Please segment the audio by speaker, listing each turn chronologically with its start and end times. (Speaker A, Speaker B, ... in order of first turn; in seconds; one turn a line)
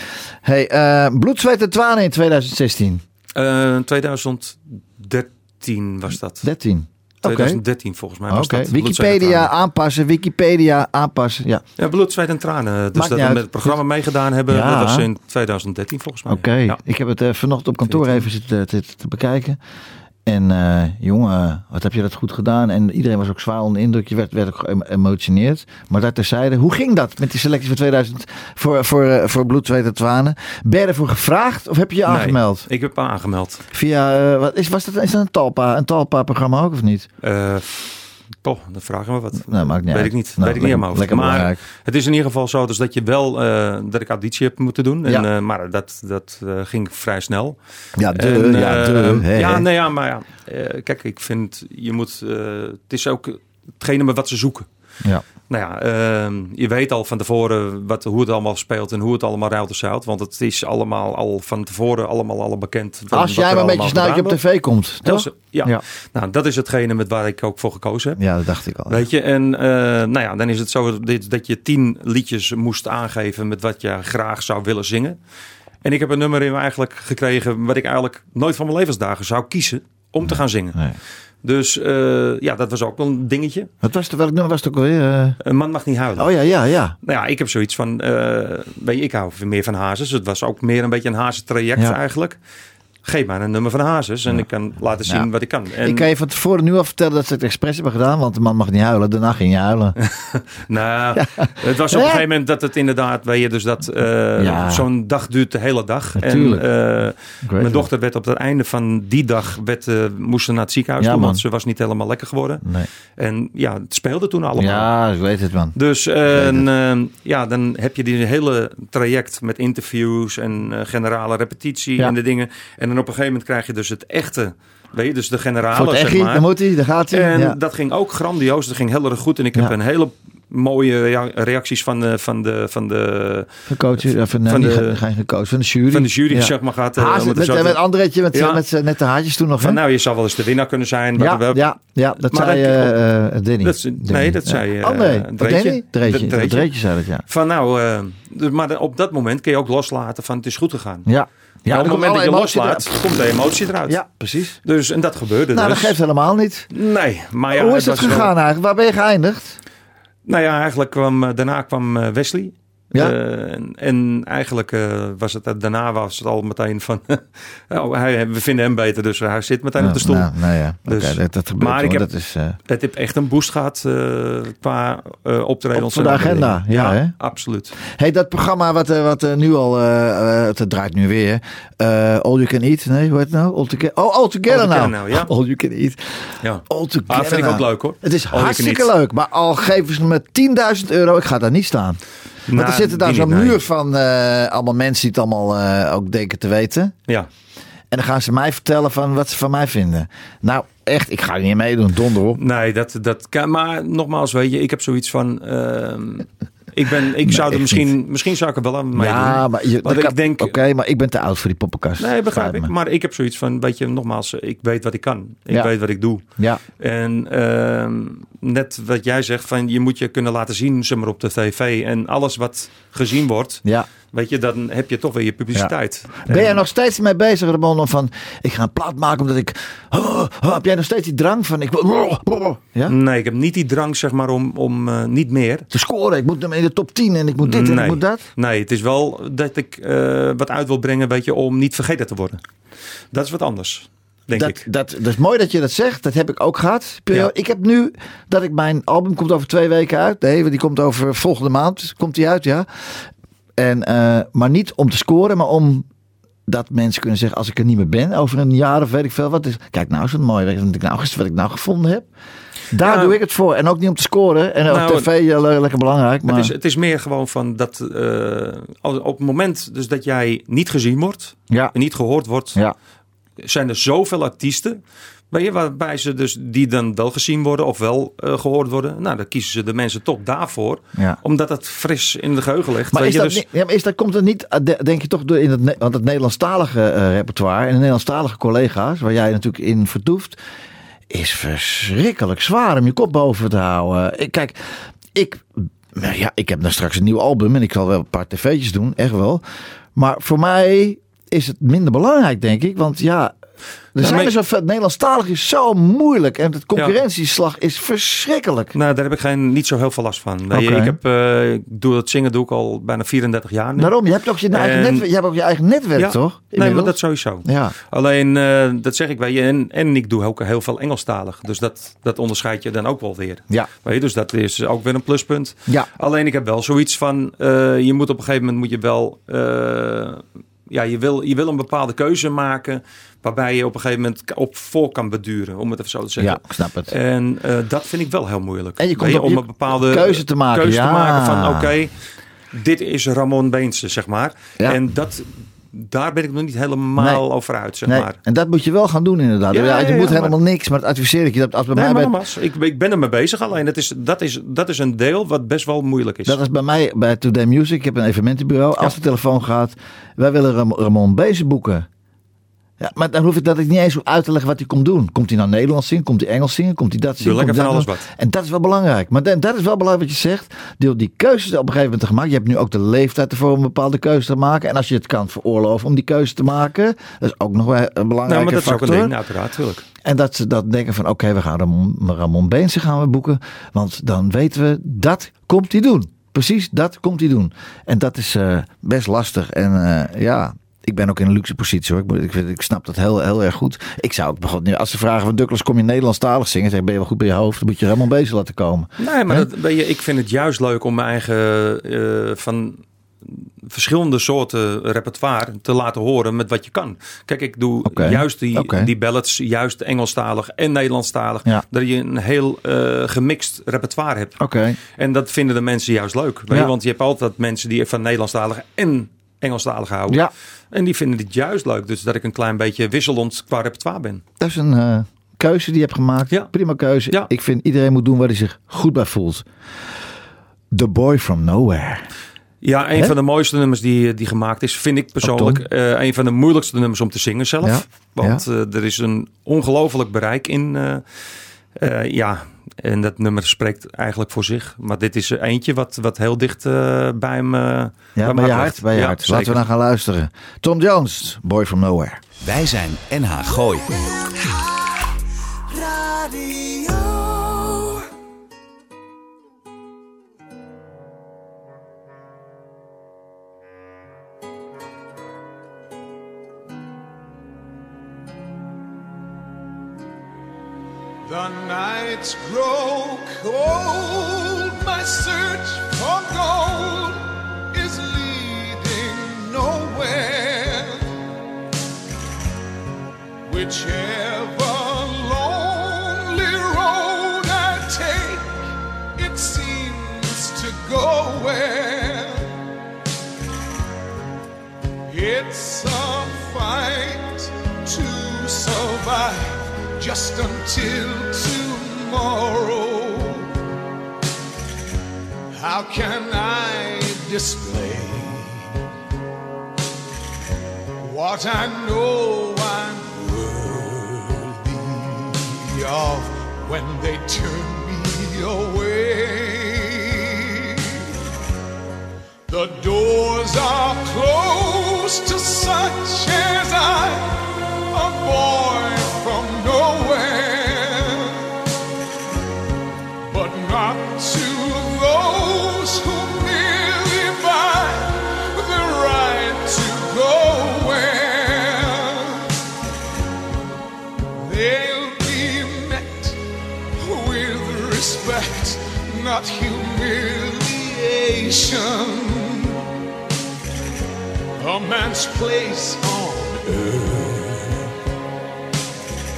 Speaker A: 0.4-3.0
Speaker B: 3.4-6.4
Speaker A: 6.4-7.6
Speaker B: 7.2-9.5
Speaker A: 8.3-11.6
Speaker B: 11.8-16.8
Speaker A: 12.9-13.8
Speaker A: 14.5-15.1
Speaker A: 16.3-19.6
Speaker B: 17.9-18.3
Speaker A: 20.3-32.7
Speaker B: 32.1-33.6
Speaker A: 33.7-37.1
Speaker B: 37.2-47.6
Speaker A: 39.4-41.6
Speaker A: 48.0-49.6
Speaker B: 48.1-54.7
Speaker B: 55.5-64.4
Speaker A: 63.1-65.8
Speaker B: 65.0-68.2
Speaker A: 68.2-69.0
Speaker B: 68.9-75.2
Speaker B: 75.8-80.8
Speaker A: 80.3-80.9
Speaker B: 81.4-83.7
Speaker A: 83.8-85.4
Speaker B: 85.4-86.3
Speaker A: 86.2-87.0
Speaker B: 87.0-92.4
Speaker B: 93.0-96.1
Speaker A: 95.8-99.9
Speaker B: 100.0-112.6
Speaker A: 101.2-102.2
Speaker A: 104.4-104.9
Speaker A: 106.2-106.7
Speaker A: 107.4-107.9
Speaker A: 111.0-111.4
Speaker A: 112.6-112.9
Speaker B: 113.2-114.9
Speaker A: 114.6-115.8
Speaker B: 115.8-126.5
Speaker A: 116.3-116.6
Speaker A: 125.7-127.6
Speaker B: 127.1-135.0
Speaker A: 133.7-139.8
Speaker B: 135.9-137.8
Speaker B: 138.3-138.6
Speaker B: 139.6-141.6
Speaker A: 141.2-147.2
Speaker B: 142.2-142.9
Speaker B: 143.6-146.7
Speaker B: 147.3-151.1
Speaker A: 151.1-153.0
Speaker B: 151.7-154.0
Speaker A: 153.9-154.6
Speaker B: 154.6-155.9
Speaker A: 155.5-156.7
Speaker B: 156.7-158.3
Speaker A: 157.5-159.6
Speaker B: 160.3-170.3
Speaker A: 169.8-172.6
Speaker B: 170.9-172.1
Speaker B: 172.7-177.8
Speaker A: 175.7-177.1
Speaker A: 177.8-186.0
Speaker B: 184.5-185.3
Speaker B: 186.4-188.9
Speaker A: 186.7-192.0
Speaker B: 192.5-193.6
Speaker A: 192.5-196.9
Speaker A: 197.9-202.4
Speaker B: 202.4-210.6
Speaker A: 207.2-207.9
Speaker A: 208.9-212.7
Speaker B: 212.0-216.2
Speaker A: 215.5-216.6
Speaker B: 216.8-226.6
Speaker A: 226.2-232.9
Speaker B: 232.9-235.7
Speaker A: 235.7-238.2
Speaker B: 237.4-242.4
Speaker B: 243.1-244.7
Speaker A: 244.3-252.7
Speaker A: 253.6-255.9
Speaker A: 256.5-262.1
Speaker A: 262.7-266.5
Speaker B: 262.8-263.2
Speaker B: 264.7-265.1
Speaker B: 266.3-272.6
Speaker A: 271.5-271.8
Speaker B: 273.4-283.4
Speaker A: 282.9-290.4
Speaker A: 291.1-294.6
Speaker A: 295.1-299.4
Speaker A: 299.9-303.4
Speaker A: 303.9-308.7
Speaker B: 304.0-304.3
Speaker B: 308.7-313.9
Speaker A: 310.5-311.0
Speaker A: 313.8-317.7
Speaker B: 314.5-315.1
Speaker B: 316.0-341.9
Speaker A: 336.2-336.9
Speaker A: 338.8-341.7
Speaker B: 342.5-348.2
Speaker A: 347.0-347.2
Speaker A: 347.9-352.1
Speaker B: 349.5-350.4
Speaker B: 351.7-356.4
Speaker A: 356.3-361.9
Speaker A: 362.8-379.1
Speaker B: 367.2-368.1
Speaker B: 378.3-379.9
Speaker A: 380.0-399.5
Speaker B: 399.0-414.4
Speaker A: 407.9-408.9
Speaker A: 414.4-414.8
Speaker B: 415.0-424.2
Speaker A: 424.4-429.4
Speaker A: 430.7-432.1
Speaker B: 432.6-441.0
Speaker A: 435.2-435.6
Speaker A: 437.6-438.4
Speaker B: 441.8-449.6
Speaker A: 448.1-452.2
Speaker C: 452.4-454.7
Speaker D: 471.2-481.1
Speaker D: 483.5-488.6
Speaker D: 489.1-492.5
Speaker D: 495.1-503.5
Speaker D: 505.5-508.7
Speaker D: 511.0-521.0
Speaker D: 522.5-531.5
Speaker D: 533.3-542.5
Speaker D: 544.4-546.4
Speaker D: 547.0-552.8
Speaker D: 554.6-557.9